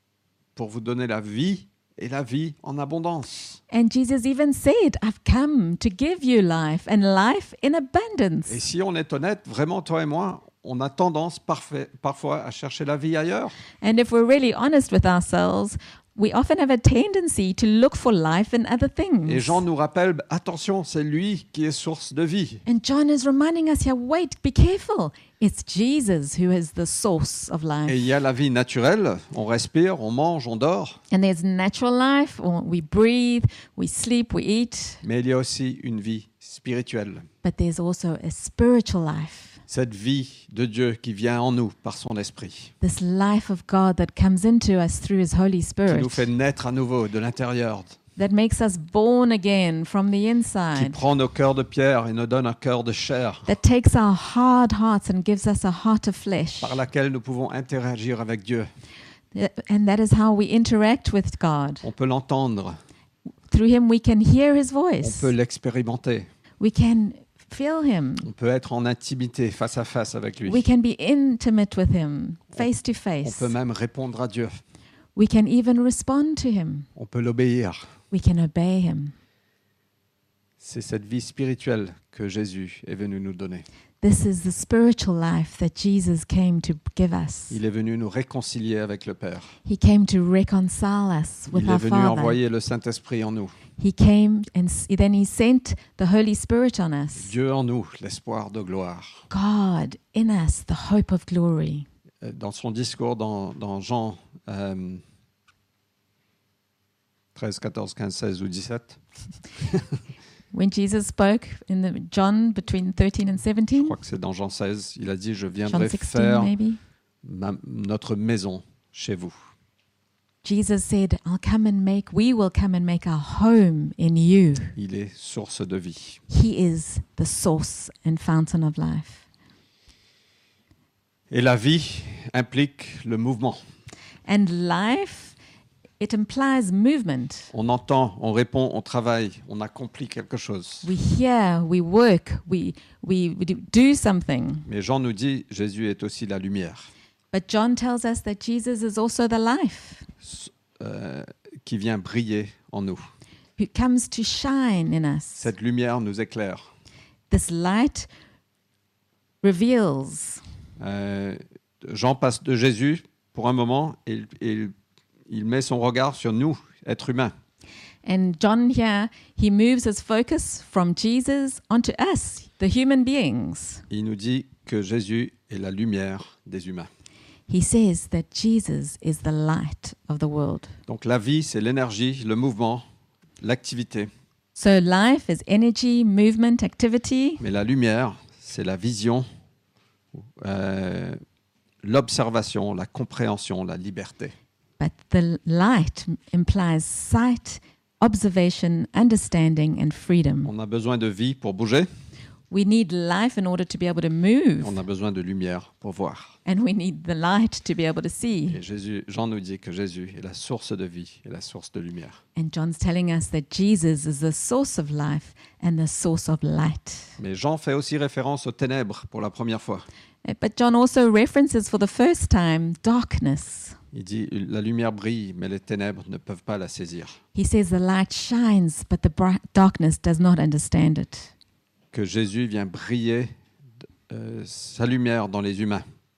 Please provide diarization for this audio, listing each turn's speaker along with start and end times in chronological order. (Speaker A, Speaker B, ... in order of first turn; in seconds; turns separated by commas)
Speaker A: 0.6-3.6, Speaker B: 3.7-8.6, Speaker A: 8.5-13.6, Speaker B: 13.8-19.6, Speaker A: 19.3-22.6, Speaker B: 22.7-28.0, Speaker A: 27.9-31.0, Speaker B: 31.1-35.0, Speaker A: 35.0-37.3, Speaker B: 37.4-39.6, Speaker A: 39.7-42.7, Speaker B: 42.8-46.3, Speaker A: 45.9-48.0, Speaker B: 48.2-51.0, Speaker A: 50.7-53.5, Speaker B: 53.5-56.8, Speaker A: 56.6-58.7, Speaker B: 59.3-61.9, Speaker A: 61.8-62.8, Speaker B: 63.5-65.3, Speaker A: 65.0-66.3, Speaker B: 66.6-68.3, Speaker A: 68.2-70.6, Speaker B: 70.5-73.5, Speaker A: 73.2-74.6, Speaker B: 75.2-76.9, Speaker A: 77.0-77.9, Speaker B: 78.1-79.1, Speaker A: 80.6-83.7, Speaker B: 84.0-87.6, Speaker A: 87.5-89.5, Speaker B: 89.7-92.4, Speaker A: 91.5-93.5, Speaker B: 93.8-97.3, Speaker A: 97.2-99.3, Speaker B: 99.3-101.9, Speaker A: 102.2-105.0, Speaker A: 107.3-109.0, Speaker B: 110.5-114.0, Speaker A: 113.8-116.5, Speaker B: 115.7-116.8, Speaker A: 117.2-119.4, Speaker B: 120.4-124.8, Speaker A: 124.8-126.2, Speaker B: 126.3-129.2, Speaker A: 131.3-133.6, Speaker B: 134.3-135.3, Speaker B: 136.0-137.5, Speaker A: 137.5-140.9, Speaker B: 140.8-144.7, Speaker A: 144.7-146.9, Speaker B: 147.3-150.1, Speaker A: 150.2-153.1, Speaker B: 153.6-155.5, Speaker A: 155.4-156.7, Speaker B: 157.3-158.1, Speaker B: 159.4-160.4, Speaker A: 160.8-164.7, Speaker A: 165.3-167.3, Speaker B: 168.1-173.8, Speaker A: 173.9-176.9, Speaker B: 177.5-180.7, Speaker A: 180.9-182.8, Speaker A: 183.4-184.1, Speaker B: 184.6-187.4, Speaker A: 187.4-189.2, Speaker A: 190.4-191.2, Speaker A: 191.8-194.3, Speaker B: 194.8-200.5, Speaker A: 200.4-201.9, Speaker B: 202.5-204.8, Speaker A: 204.6-206.4, Speaker B: 206.4-208.6, Speaker A: 208.5-212.2, Speaker B: 212.4-217.2, Speaker A: 217.2-219.9, Speaker B: 220.2-223.8, Speaker A: 223.9-227.2, Speaker B: 227.3-231.3, Speaker A: 231.9-233.3, Speaker A: 234.1-235.8